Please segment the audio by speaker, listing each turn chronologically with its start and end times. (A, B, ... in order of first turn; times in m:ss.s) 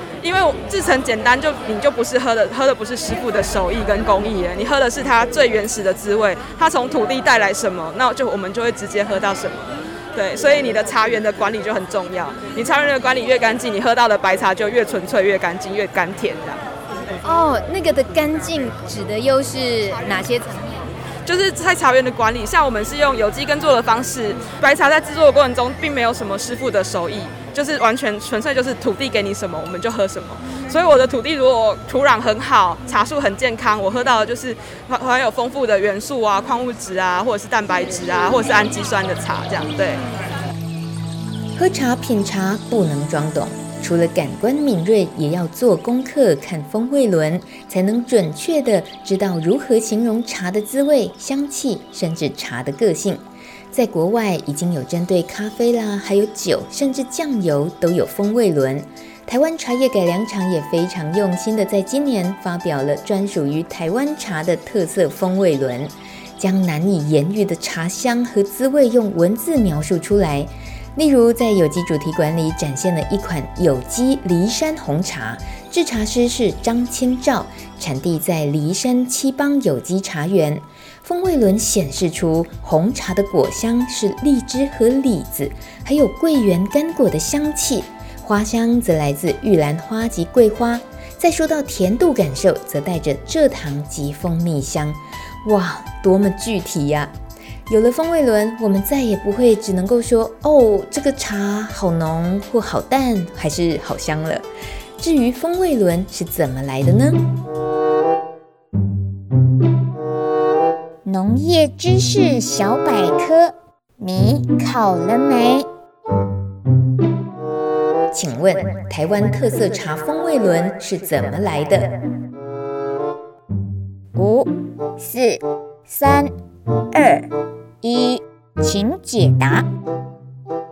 0:00.2-0:16.6 A
0:17.2-0:20.9 B
0:21.3-0:40.0 A
0:41.6-1:37.1 C
1:37.7-1:44.5 C
1:45.0-1:47.2 C
1:51.0-1:55.7 D
1:58.1-2:02.0 C
2:04.2-2:06.3 D
2:06.9-2:07.3 D
2:07.8-2:09.7 D